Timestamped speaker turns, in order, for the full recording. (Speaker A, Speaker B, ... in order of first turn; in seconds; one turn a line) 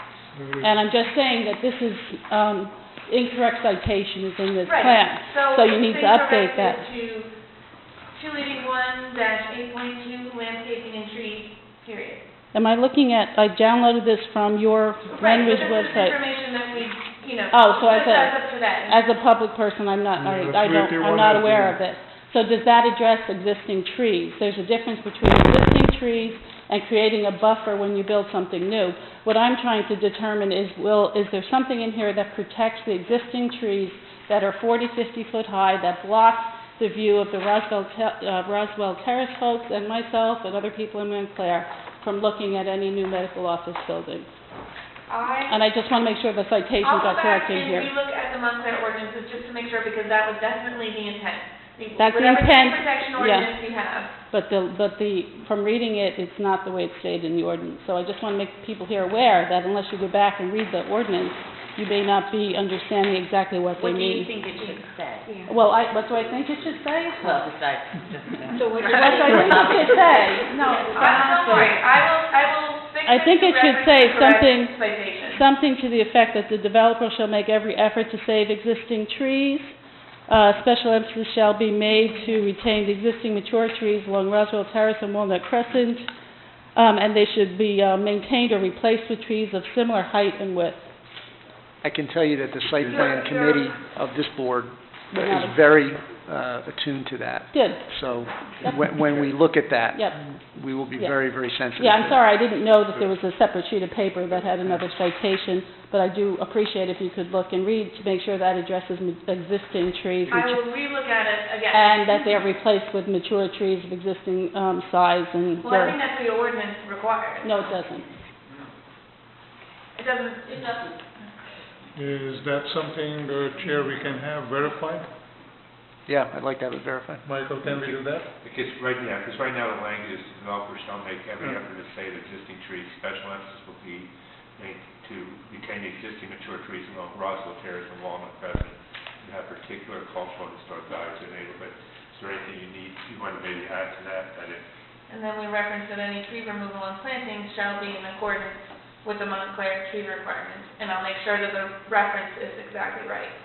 Speaker A: 0.3-0.7
Speaker B: 0.6-6.8
Speaker C: 4.7-7.4
Speaker C: 8.1-12.2
Speaker B: 12.5-16.2
Speaker C: 15.1-19.1
Speaker B: 17.5-44.3
Speaker A: 20.2-21.8
Speaker C: 45.1-45.6
Speaker B: 45.5-47.9
Speaker C: 46.8-54.1
Speaker B: 52.0-53.6
Speaker B: 54.3-64.3
Speaker D: 63.8-65.3
Speaker C: 64.6-65.5
Speaker B: 65.5-67.4
Speaker D: 67.2-70.5
Speaker B: 68.8-71.8
Speaker C: 68.9-69.9
Speaker C: 70.8-75.5
Speaker D: 71.0-71.4
Speaker B: 73.0-79.8
Speaker B: 80.3-86.1
Speaker B: 86.8-90.9
Speaker E: 91.8-102.2
Speaker C: 92.9-93.7
Speaker B: 95.1-95.6
Speaker B: 97.5-98.0
Speaker B: 98.6-98.9
Speaker B: 100.0-100.4
Speaker B: 100.9-110.6
Speaker C: 110.3-112.3
Speaker B: 111.7-116.0
Speaker C: 115.6-117.7
Speaker B: 117.4-118.1
Speaker C: 120.0-121.2
Speaker A: 121.9-125.1
Speaker E: 126.1-127.3
Speaker A: 127.2-128.3
Speaker F: 127.6-144.6
Speaker C: 145.1-153.4